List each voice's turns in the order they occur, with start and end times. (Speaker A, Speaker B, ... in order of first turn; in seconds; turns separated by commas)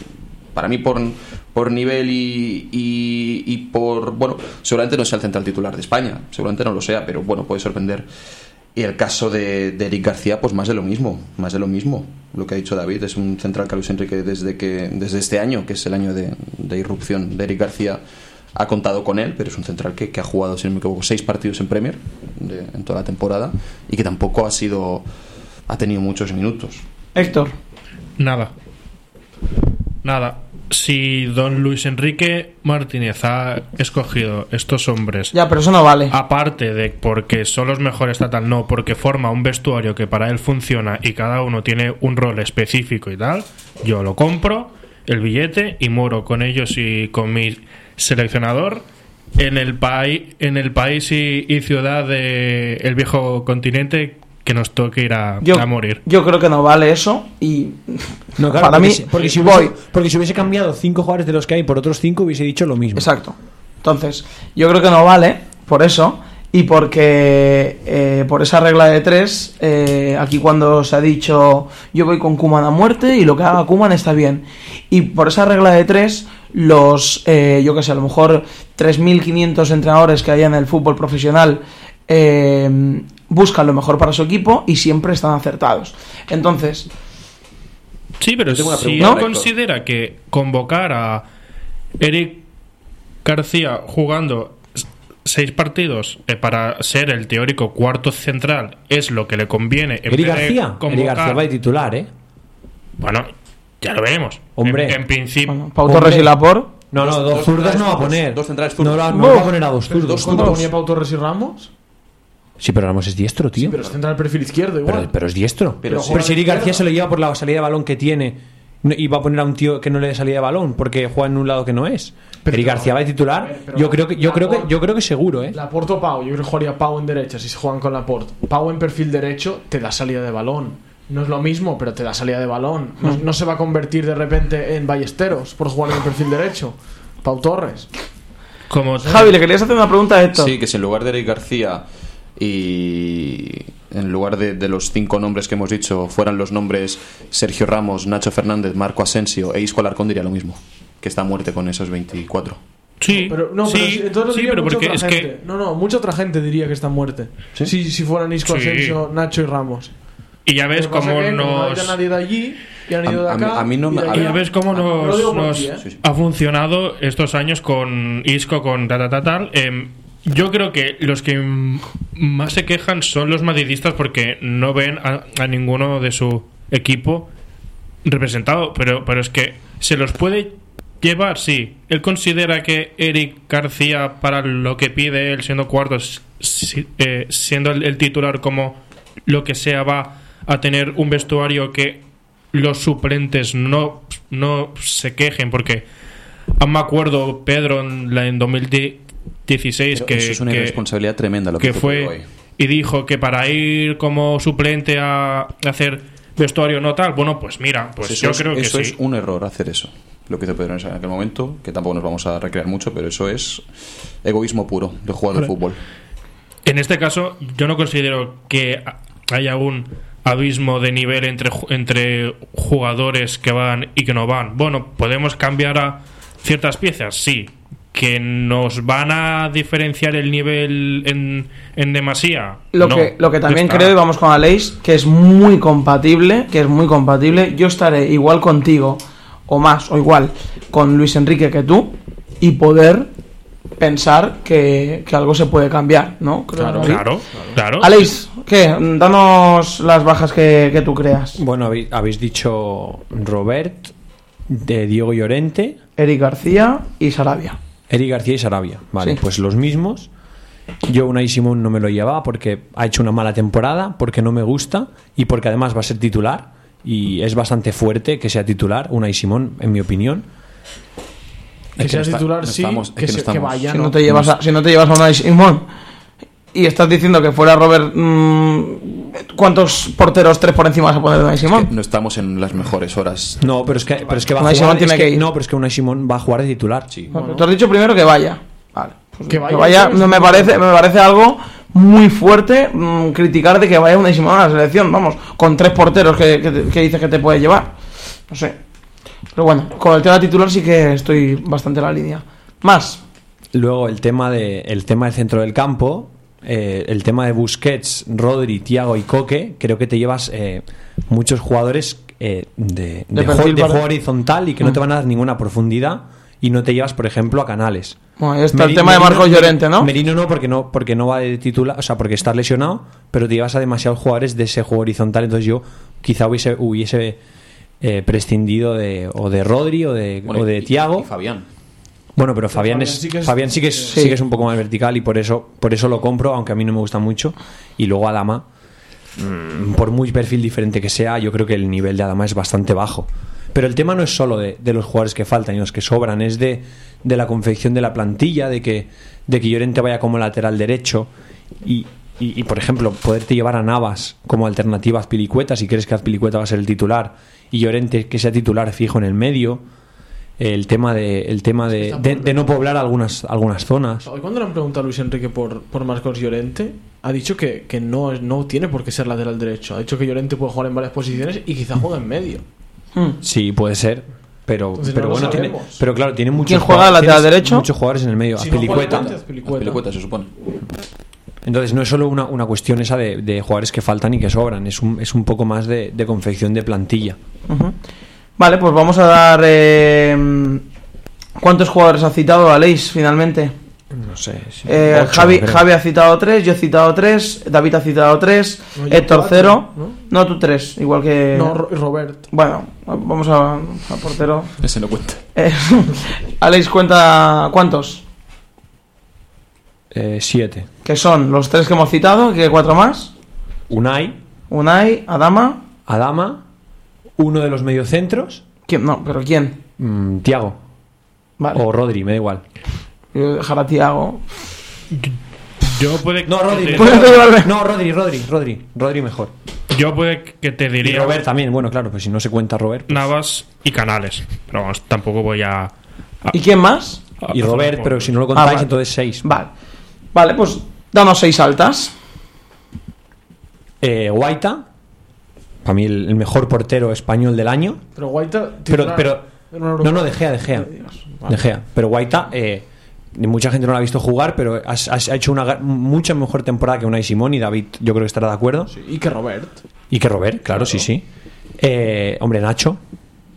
Speaker A: 0.5-8.1, Speaker A: 8.7-18.0, Speaker A: 18.6-25.1, Speaker A: 25.7-26.8, Speaker B: 27.1-27.5, Speaker C: 28.2-28.5, Speaker C: 30.0-35.3, Speaker B: 35.3-36.1, Speaker C: 36.1-56.0, Speaker B: 55.4-59.7, Speaker D: 58.4-63.1, Speaker B: 63.0-86.9, Speaker C: 88.2-91.2, Speaker A: 88.5-89.5, Speaker C: 92.0-92.5, Speaker C: 93.2-101.4, Speaker D: 100.1-102.1, Speaker C: 103.0-105.5, Speaker D: 104.5-105.0, Speaker B: 105.5-106.7, Speaker D: 105.8-110.6, Speaker A: 107.0-110.7, Speaker B: 109.1-109.5, Speaker E: 110.0-111.7, Speaker D: 112.6-113.8, Speaker E: 113.6-115.1, Speaker D: 114.8-125.6, Speaker A: 115.8-116.6, Speaker E: 115.8-116.8, Speaker E: 122.4-124.7, Speaker E: 125.5-137.9, Speaker C: 138.7-139.4, Speaker B: 139.1-140.5, Speaker A: 140.3-141.8, Speaker A: 142.4-152.6, Speaker C: 153.0-155.3, Speaker E: 153.2-160.0, Speaker C: 158.4-158.9, Speaker C: 160.4-162.0, Speaker E: 160.7-165.9, Speaker A: 163.0-164.9, Speaker C: 164.1-177.3, Speaker C: 178.1-195.9, Speaker C: 196.6-200.8, Speaker A: 199.9-202.2, Speaker C: 201.6-208.9, Speaker A: 208.0-213.6, Speaker A: 214.2-215.8, Speaker C: 216.6-233.9, Speaker B: 232.7-243.1, Speaker B: 243.8-247.1, Speaker E: 246.6-247.6, Speaker C: 246.8-248.1, Speaker B: 247.8-251.4, Speaker D: 251.4-253.9, Speaker D: 254.5-255.8, Speaker B: 256.0-257.6, Speaker D: 257.9-260.1, Speaker D: 260.8-270.2, Speaker A: 271.8-274.3, Speaker E: 271.8-274.0, Speaker B: 273.7-275.6, Speaker B: 276.5-281.7, Speaker A: 281.4-284.3, Speaker D: 283.4-286.9, Speaker B: 284.4-285.2, Speaker E: 287.1-287.4, Speaker B: 287.1-297.7, Speaker E: 289.3-290.6, Speaker B: 298.3-298.6, Speaker B: 299.3-303.0, Speaker D: 303.5-318.0, Speaker B: 313.1-313.8, Speaker B: 318.2-319.9, Speaker D: 318.5-327.2, Speaker D: 327.8-331.1, Speaker A: 330.3-331.4, Speaker D: 332.1-338.4, Speaker E: 332.5-334.0, Speaker B: 333.9-334.2, Speaker D: 339.2-351.1, Speaker D: 351.6-359.6, Speaker D: 360.4-364.1, Speaker E: 361.7-362.5, Speaker E: 364.0-372.4, Speaker D: 373.2-379.1, Speaker E: 374.7-375.8, Speaker B: 376.4-377.7, Speaker E: 378.3-379.8, Speaker A: 378.5-380.3, Speaker D: 381.4-387.2, Speaker B: 387.5-387.7, Speaker B: 388.4-390.6, Speaker B: 391.4-393.5, Speaker D: 393.9-395.7, Speaker B: 394.6-401.6, Speaker E: 398.7-400.0, Speaker E: 401.3-402.3, Speaker B: 402.3-404.5, Speaker A: 404.6-405.2, Speaker B: 405.3-408.0, Speaker D: 409.9-410.7, Speaker B: 410.8-413.1, Speaker D: 413.7-414.2, Speaker B: 414.5-415.6, Speaker D: 415.9-416.4, Speaker D: 417.2-418.4, Speaker B: 418.7-419.6, Speaker D: 419.8-420.6, Speaker D: 421.5-422.4, Speaker B: 423.1-424.2, Speaker C: 424.9-427.2, Speaker D: 426.3-429.3, Speaker B: 426.8-427.5, Speaker C: 429.7-431.2, Speaker D: 430.8-433.1, Speaker C: 432.9-435.7, Speaker B: 436.3-437.0, Speaker C: 437.2-438.1, Speaker D: 437.3-439.4, Speaker B: 438.3-438.7, Speaker B: 439.2-439.5, Speaker B: 440.1-441.9, Speaker D: 443.8-444.6, Speaker D: 445.6-447.8, Speaker E: 447.9-450.2, Speaker D: 448.7-450.7, Speaker D: 451.2-458.7, Speaker E: 458.7-459.6, Speaker D: 459.9-461.1, Speaker D: 461.6-462.8